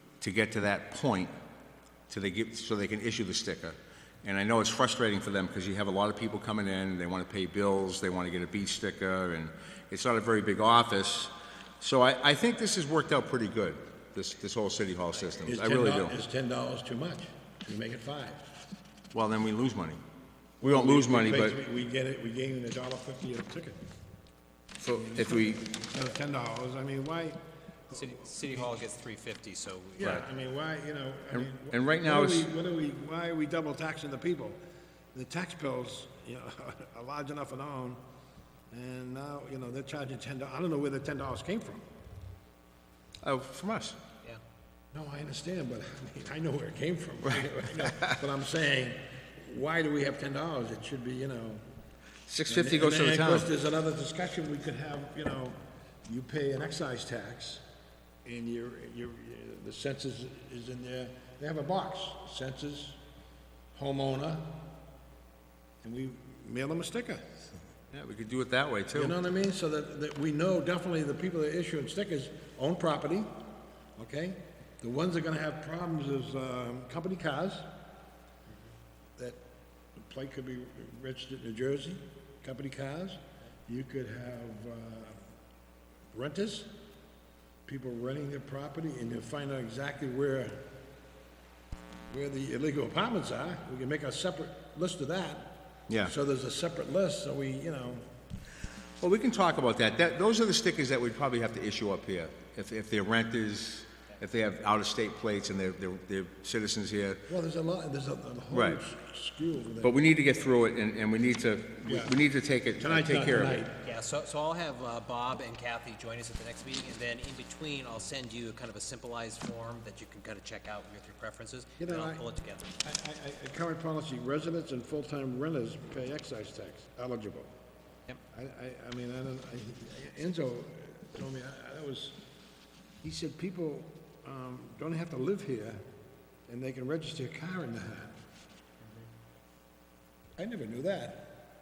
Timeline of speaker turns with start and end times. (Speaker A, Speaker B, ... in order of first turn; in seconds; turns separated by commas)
Speaker A: 0.2-1.3, Speaker A: 2.1-16.1, Speaker B: 15.5-18.4, Speaker A: 19.1-20.0, Speaker A: 20.6-21.6, Speaker B: 20.6-23.8, Speaker A: 24.8-25.6, Speaker B: 24.9-28.7, Speaker C: 27.9-30.2, Speaker B: 29.9-34.6, Speaker A: 31.3-32.5, Speaker B: 35.1-38.0, Speaker B: 38.7-41.8, Speaker A: 43.2-44.0, Speaker B: 44.9-51.6, Speaker A: 47.4-48.2, Speaker A: 52.3-53.5, Speaker B: 52.5-57.6, Speaker B: 58.2-63.0, Speaker B: 63.7-64.7, Speaker B: 65.8-67.4, Speaker A: 67.9-69.2, Speaker B: 68.9-73.4, Speaker B: 74.0-77.7, Speaker B: 80.0-85.2, Speaker B: 86.1-86.7, Speaker B: 87.7-90.7, Speaker B: 92.1-98.0, Speaker A: 99.0-107.2, Speaker B: 107.3-110.0, Speaker A: 108.5-108.8, Speaker A: 109.8-113.6, Speaker B: 111.8-112.2, Speaker B: 112.8-113.8, Speaker C: 113.8-122.8, Speaker B: 121.8-122.2, Speaker B: 122.8-127.5, Speaker B: 128.3-132.2, Speaker B: 133.0-135.8, Speaker B: 136.5-138.2, Speaker C: 138.8-139.1, Speaker B: 140.4-141.4